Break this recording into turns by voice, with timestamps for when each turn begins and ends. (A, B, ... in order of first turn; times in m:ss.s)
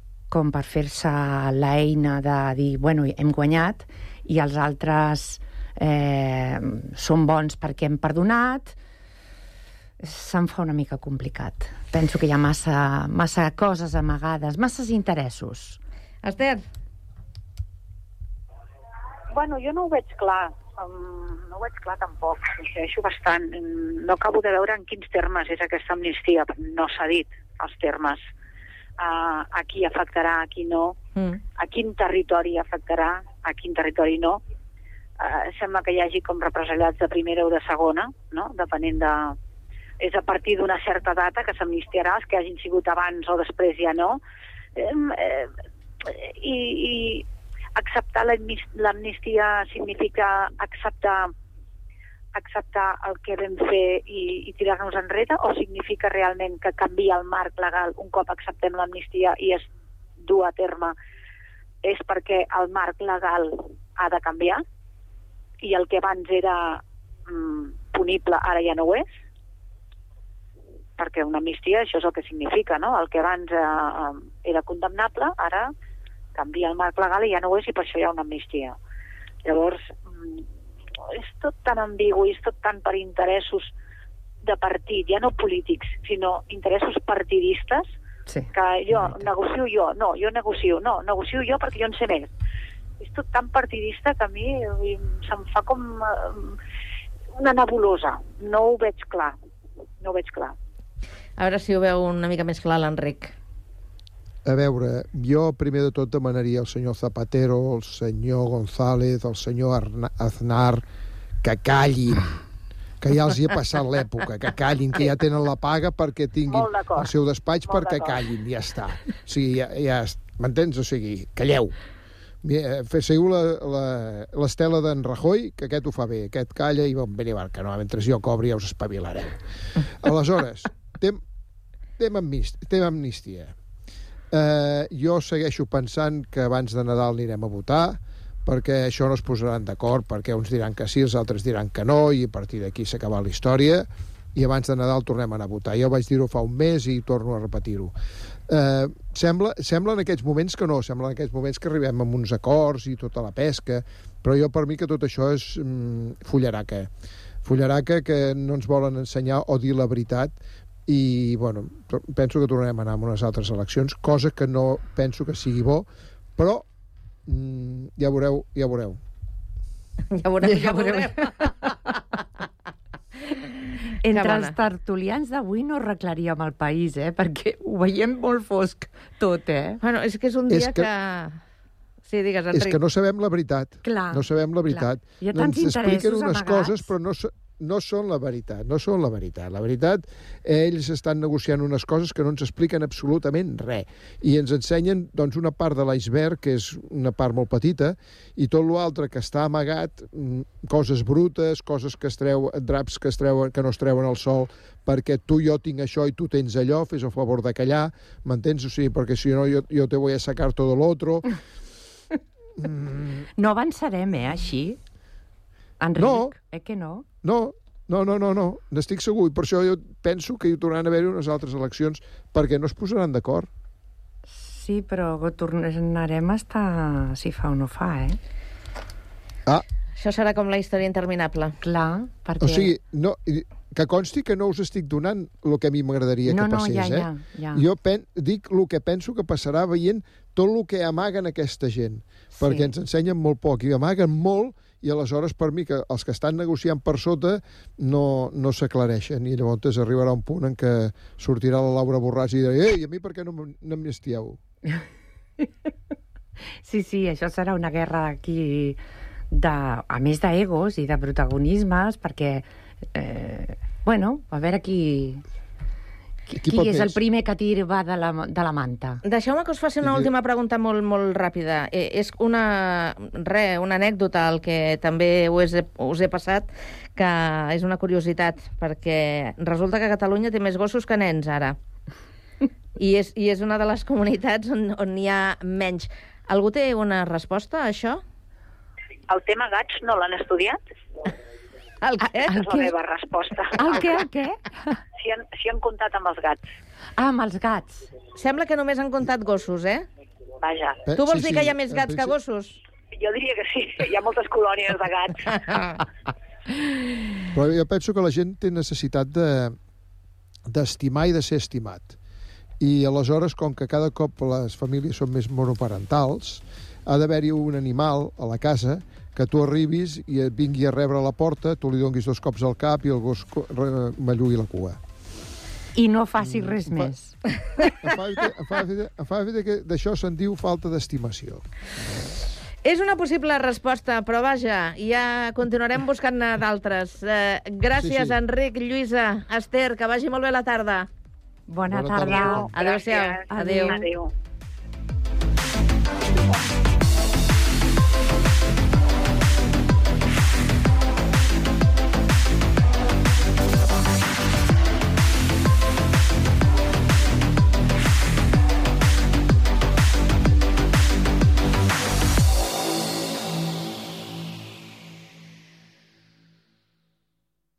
0:00.3-0:08.8 A
0:10.0-0:15.8 A
0:16.2-0:16.6 B
0:19.3-0:28.2 C
0:29.0-0:31.0 C
0:31.6-0:34.4 C
0:35.2-0:39.4 C
0:40.0-0:44.2 C
0:44.8-0:51.3 C
0:52.3-0:59.6 C
1:00.2-1:00.9 C
1:01.8-1:04.6 C
1:05.6-1:09.1 C
1:11.0-1:15.7 C
1:16.3-1:18.8 C
1:19.4-1:20.4 C
1:21.1-1:23.7 C
1:24.4-1:27.9 C
1:28.3-1:29.3 A
1:28.5-1:32.3 C
1:33.0-1:36.6 C
1:37.3-1:39.4 C
1:40.0-1:40.6 C
1:41.4-1:43.3 B
1:44.4-1:50.8 D
1:51.4-1:52.3 D
1:53.0-2:01.7 D
1:56.5-1:57.1 C
1:57.7-1:58.2 C
2:02.4-2:09.4 D
2:10.0-2:11.2 D
2:12.0-2:13.5 D
2:14.3-2:27.9 D
2:28.5-2:36.9 D
2:37.4-2:46.6 D
2:47.3-2:49.0 D
2:50.2-2:51.3 B
2:50.4-2:51.7 A
2:54.0-2:59.8 A
2:54.1-2:54.5 B
2:59.8-3:01.4 B
3:00.5-3:00.9 D
3:02.1-3:02.8 B
3:02.5-3:31.3 D
3:03.8-3:06.9 A
3:32.6-3:33.2 D
3:33.2-3:34.8 A
3:35.8-3:37.1 A
3:36.0-3:36.3 D
3:37.2-3:43.5 D
3:44.3-3:48.2 A
3:50.0-3:51.6 B
3:51.6-3:52.7 A
3:52.4-4:14.4 D
3:56.2-3:57.6 A
4:02.4-4:02.7 A
4:16.6-4:18.8 A
4:19.3-4:25.2 A
4:26.3-4:29.0 A
4:26.4-4:27.0 D
4:29.0-4:41.6 B
4:29.8-4:30.1 D
4:42.8-4:48.0 B
4:49.1-4:50.6 C
4:51.8-4:52.2 B
4:52.1-4:52.7 A
4:52.4-4:54.0 C
4:53.5-4:54.7 A
4:55.0-4:56.4 C
4:57.0-4:57.9 A
4:58.1-4:59.8 B
5:00.4-5:00.8 C
5:00.8-5:02.2 D
5:01.0-5:02.6 B
5:02.9-5:05.3 C
5:07.3-5:09.5 D
5:10.5-5:12.0 D
5:12.6-5:24.8 D
5:25.8-5:27.2 A
5:26.2-5:26.9 D
5:27.8-5:31.4 D
5:32.6-5:40.9 B
5:37.8-5:38.2 D
5:41.5-5:42.5 A
5:41.7-5:42.5 D
5:42.0-5:44.1 C
5:42.5-5:43.8 B
5:43.3-5:43.9 A